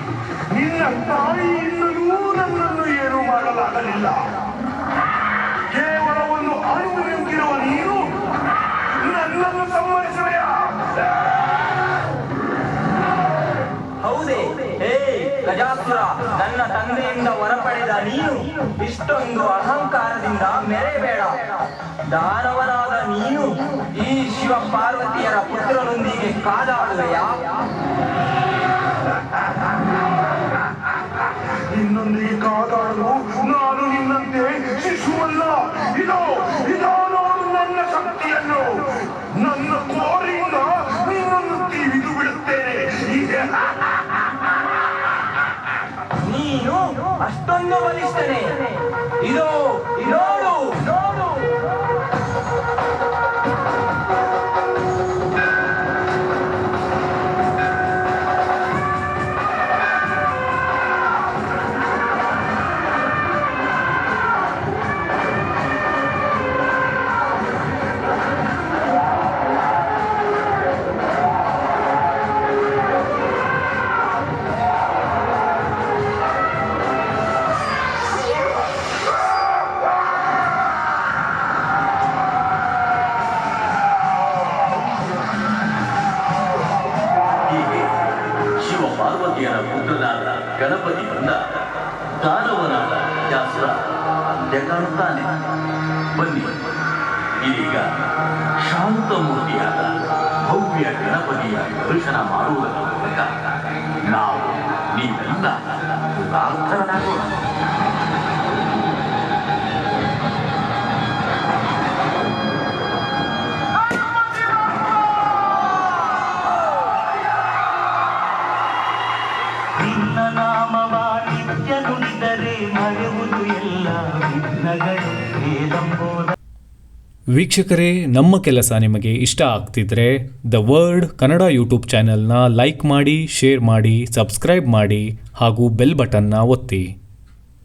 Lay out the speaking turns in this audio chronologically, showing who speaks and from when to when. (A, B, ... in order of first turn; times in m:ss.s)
0:00.5-0:04.2 A
0:05.7-0:08.2 A
0:09.0-0:10.9 A
0:14.0-0:27.6 B
0:31.7-0:43.8 A
0:46.2-0:51.6 B
1:27.5-1:27.9 C
1:28.6-1:31.4 C
1:32.2-1:35.5 C
1:36.1-1:36.5 C
1:37.4-1:37.9 C
1:38.6-1:43.3 C
1:44.1-1:47.4 C
1:59.8-2:06.3 D
2:07.3-2:16.8 E